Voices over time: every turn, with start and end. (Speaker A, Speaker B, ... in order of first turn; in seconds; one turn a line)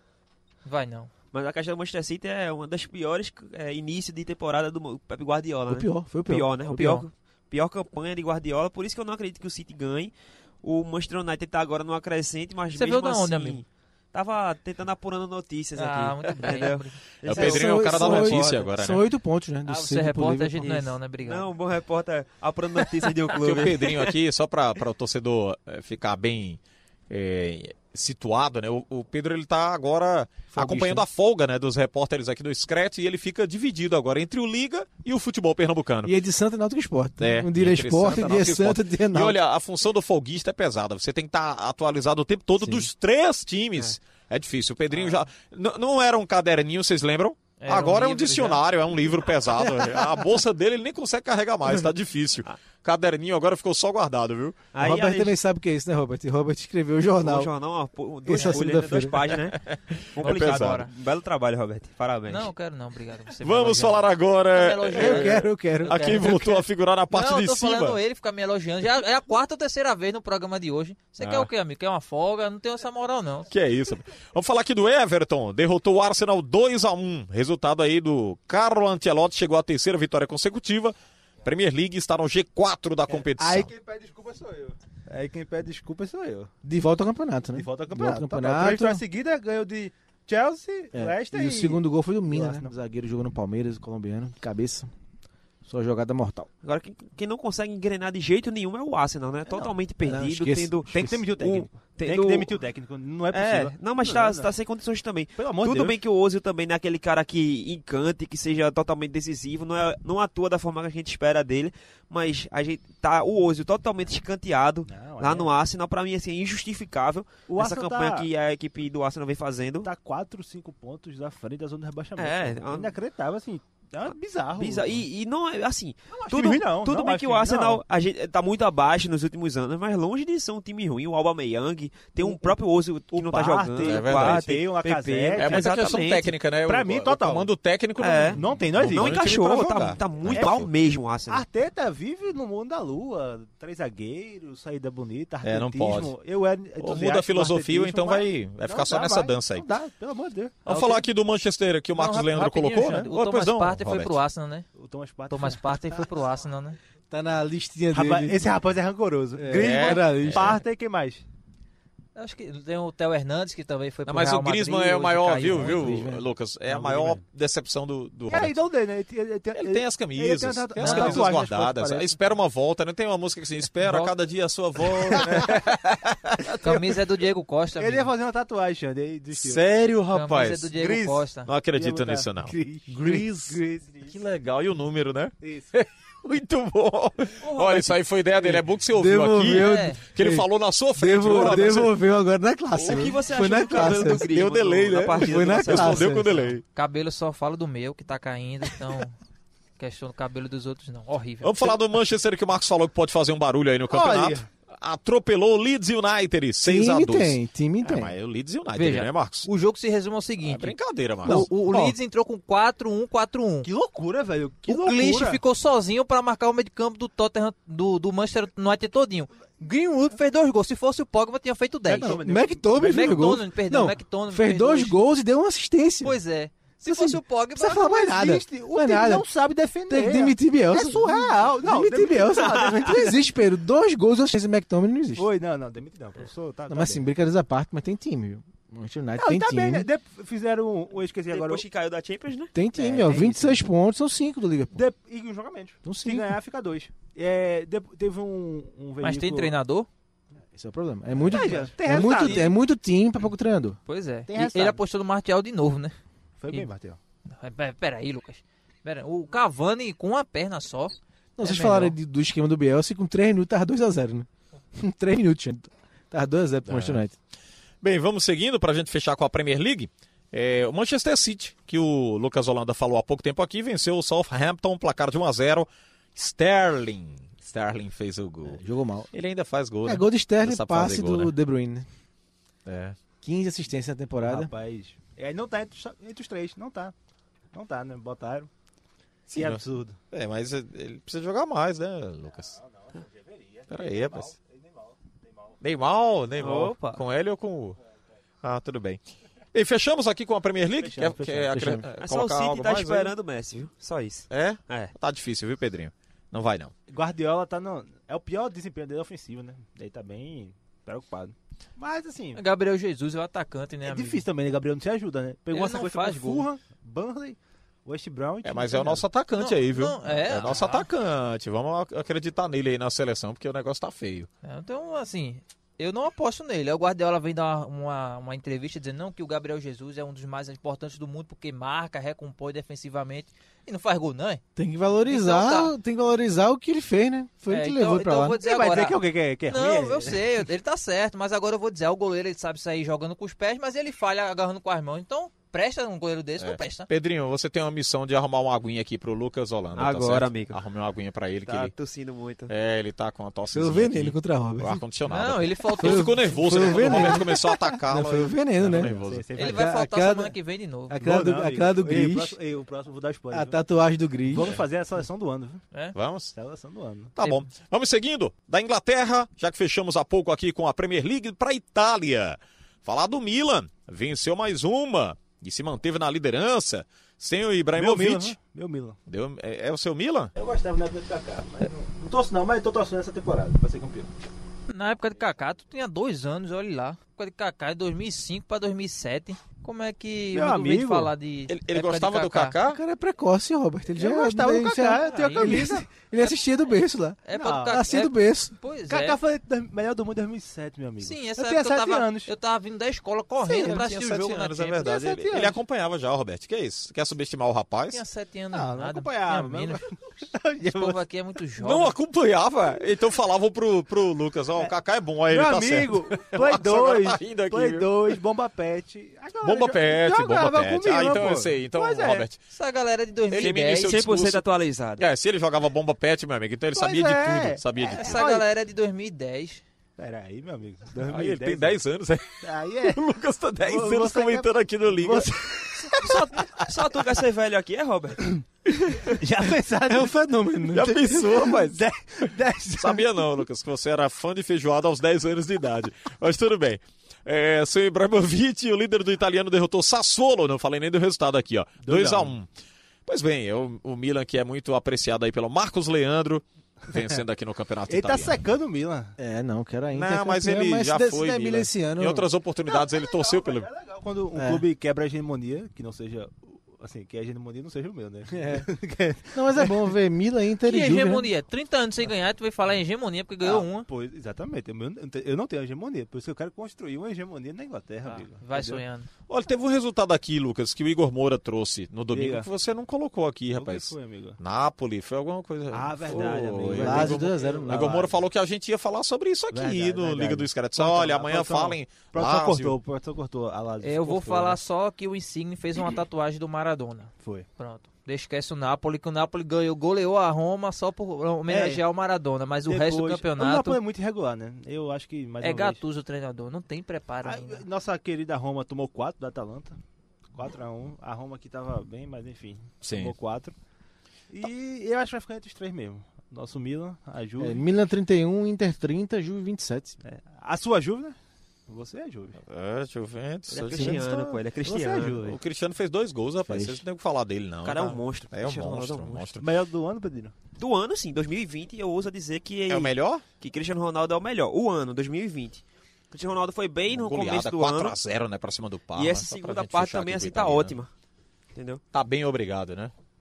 Speaker A: 0.7-1.1
Speaker B: 1.3-18.5
Speaker C: 5.7-7.1
Speaker A: 12.7-13.6
Speaker A: 15.8-17.0
Speaker D: 17.2-19.1
Speaker C: 17.3-20.9
Speaker A: 19.7-21.5
Speaker B: 21.2-24.1
Speaker D: 23.4-26.6
Speaker D: 27.1-36.1
Speaker C: 30.5-31.1
Speaker C: 36.0-39.4
Speaker D: 37.2-54.6
Speaker C: 42.6-42.9
Speaker A: 47.6-48.6
Speaker B: 54.7-55.4
Speaker C: 54.8-57.5
Speaker B: 57.2-62.5
Speaker C: 58.2-59.3
Speaker D: 59.6-60.8
Speaker A: 60.2-60.9
Speaker A: 62.3-73.5
Speaker D: 63.4-68.0
Speaker C: 64.9-66.3
Speaker D: 71.2-71.5
Speaker D: 73.5-83.7
Speaker E: 83.1-86.5
Speaker C: 86.6-89.0
Speaker E: 87.5-92.7
Speaker C: 90.9-94.9
Speaker C: 95.7-96.5
Speaker B: 96.6-102.6
Speaker E: 99.5-99.8
Speaker C: 100.0-101.1
Speaker E: 100.9-104.5
Speaker B: 103.3-119.9
Speaker E: 105.4-106.0
Speaker E: 114.9-115.5
Speaker E: 117.5-118.3
Speaker E: 119.8-125.0
Speaker B: 122.2-123.0
Speaker B: 124.1-136.3
Speaker E: 126.1-127.8
Speaker E: 132.2-132.6
Speaker E: 133.1-135.8
Speaker D: 133.8-134.5
Speaker D: 135.4-140.7
Speaker E: 136.7-137.5
Speaker B: 138.0-141.4
Speaker E: 138.3-140.6
Speaker E: 141.3-151.0
Speaker D: 145.4-146.1
Speaker D: 146.8-149.7
Speaker D: 150.7-154.2
Speaker A: 152.0-154.7
Speaker E: 154.8-156.0
Speaker A: 155.3-156.8
Speaker C: 157.1-158.5
Speaker E: 157.9-161.2
Speaker C: 159.4-160.5
Speaker D: 159.5-160.6
Speaker A: 162.2-166.0
Speaker D: 164.1-168.6
Speaker C: 165.5-166.3
Speaker E: 166.7-167.2
Speaker E: 168.3-172.2
Speaker D: 169.6-176.6
Speaker A: 170.8-171.3
Speaker A: 173.8-174.1
Speaker E: 175.1-175.6
Speaker A: 176.6-178.1
Speaker E: 177.8-179.6
Speaker D: 179.3-180.8
Speaker A: 180.1-181.5
Speaker E: 180.8-184.2
Speaker D: 181.5-192.0
Speaker E: 185.4-185.7
Speaker C: 188.4-194.3
Speaker A: 189.5-190.0
Speaker B: 192.8-196.2
Speaker D: 193.5-196.6
Speaker C: 195.1-196.6
Speaker A: 196.7-199.2
Speaker A: 199.8-201.8
Speaker D: 201.4-209.5
Speaker E: 203.9-204.5
Speaker C: 206.6-208.1
Speaker A: 208.8-213.7
Speaker D: 210.4-211.5
Speaker C: 211.2-211.9
Speaker E: 213.6-215.4
Speaker A: 214.7-222.2
Speaker E: 221.9-223.4
Speaker C: 222.0-226.2
Speaker A: 222.8-225.0
Speaker A: 226.0-227.9
Speaker C: 226.8-229.3
Speaker E: 227.7-233.2
Speaker C: 229.9-235.3
Speaker E: 235.2-237.1
Speaker C: 236.7-239.9
Speaker E: 239.2-241.7
Speaker B: 241.3-242.6
Speaker C: 242.6-244.8
Speaker E: 242.8-243.6
Speaker E: 244.7-249.6
Speaker C: 245.8-246.4
Speaker A: 249.0-249.9
Speaker C: 250.5-253.8
Speaker E: 251.1-252.6
Speaker A: 251.3-252.5
Speaker A: 253.9-255.9
Speaker E: 254.3-254.8
Speaker E: 256.4-257.0
Speaker A: 257.3-261.9
Speaker C: 261.4-267.1
Speaker D: 266.7-267.0
Speaker D: 267.8-278.6
Speaker C: 278.5-279.1
Speaker D: 279.1-281.3
Speaker C: 279.9-281.9
Speaker D: 282.7-283.0
Speaker C: 283.2-284.5
Speaker E: 284.2-286.9
Speaker E: 287.5-288.5
Speaker D: 289.3-292.6
Speaker E: 289.3-290.0
Speaker E: 292.5-295.6
Speaker D: 293.7-294.4
Speaker D: 295.6-297.8
Speaker B: 296.4-297.0
Speaker D: 298.4-299.0
Speaker D: 299.5-303.1
Speaker E: 300.8-301.7
Speaker C: 301.5-301.9
Speaker B: 302.0-304.9
Speaker D: 304.3-306.7
Speaker E: 306.9-312.4
Speaker A: 312.4-314.2
Speaker E: 313.8-319.1
Speaker A: 315.5-316.5
Speaker D: 318.4-324.3
Speaker A: 319.4-320.9
Speaker A: 324.4-334.4
Speaker C: 334.6-338.4
Speaker A: 335.1-335.7
Speaker A: 337.5-346.9
Speaker E: 338.3-340.3
Speaker D: 346.4-351.7
Speaker B: 349.8-350.6
Speaker B: 351.5-352.5
Speaker D: 352.5-359.3
Speaker C: 353.5-354.8
Speaker A: 355.1-357.2
Speaker C: 355.8-360.4
Speaker E: 358.6-359.8
Speaker A: 359.4-361.0
Speaker C: 360.9-362.4
Speaker E: 361.0-363.6
Speaker C: 363.3-364.5
Speaker E: 364.2-365.6
Speaker D: 365.9-366.3
Speaker E: 366.3-367.1
Speaker D: 367.1-378.4
Speaker A: 367.2-367.5
Speaker E: 377.8-379.0
Speaker D: 379.1-380.3
Speaker E: 380.4-384.1
Speaker A: 384.7-392.6
Speaker E: 390.3-391.1
Speaker D: 391.5-392.8
Speaker C: 392.7-398.5
Speaker E: 394.0-395.9
Speaker A: 395.1-395.7
Speaker A: 397.2-399.2
Speaker E: 397.3-397.8
Speaker E: 398.9-402.3
Speaker A: 401.0-404.9
Speaker E: 403.5-403.8
Speaker D: 403.5-408.0
Speaker E: 404.8-405.6
Speaker A: 407.9-409.8
Speaker E: 408.5-411.0
Speaker A: 410.6-411.9
Speaker D: 411.6-418.2
Speaker E: 415.3-422.3
Speaker D: 419.4-422.4
Speaker A: 422.5-424.0
Speaker D: 423.3-424.4
Speaker B: 423.4-425.0
Speaker D: 425.0-428.2
Speaker E: 426.7-428.5
Speaker A: 427.9-429.6
Speaker E: 430.0-431.8
Speaker D: 431.0-436.7
Speaker E: 432.4-433.0
Speaker E: 433.6-436.2
Speaker B: 436.0-438.2
Speaker E: 439.1-443.2
Speaker D: 440.7-452.5
Speaker E: 451.8-452.4
Speaker D: 453.1-458.4
Speaker E: 457.9-459.1
Speaker C: 459.2-462.3
Speaker D: 459.9-463.7
Speaker E: 462.7-469.9
Speaker C: 464.4-464.6
Speaker C: 468.3-468.7
Speaker C: 469.3-471.3
Speaker A: 470.6-473.9
Speaker E: 473.4-478.8
Speaker A: 478.1-479.1
Speaker D: 479.3-492.8
Speaker E: 482.1-482.5
Speaker E: 483.6-484.4
Speaker E: 485.7-488.2
Speaker C: 486.7-488.1
Speaker E: 489.5-494.6
Speaker A: 493.8-503.8
Speaker E: 501.5-501.9
Speaker E: 502.6-505.8
Speaker A: 505.4-507.6
Speaker E: 507.2-509.8
Speaker E: 510.3-513.5
Speaker D: 512.8-513.1
Speaker E: 514.3-517.6
Speaker C: 517.4-520.0
Speaker E: 520.0-521.2
Speaker E: 521.7-522.4
Speaker D: 522.5-524.4
Speaker B: 523.5-525.2
Speaker C: 523.7-524.0
Speaker E: 524.6-525.4
Speaker D: 525.2-529.5
Speaker C: 526.5-526.8
Speaker B: 527.6-529.3
Speaker E: 529.4-530.3
Speaker B: 530.6-538.0
Speaker D: 532.7-533.2
Speaker D: 536.9-540.8
Speaker B: 539.0-540.9
Speaker B: 541.5-541.8
Speaker D: 541.9-542.9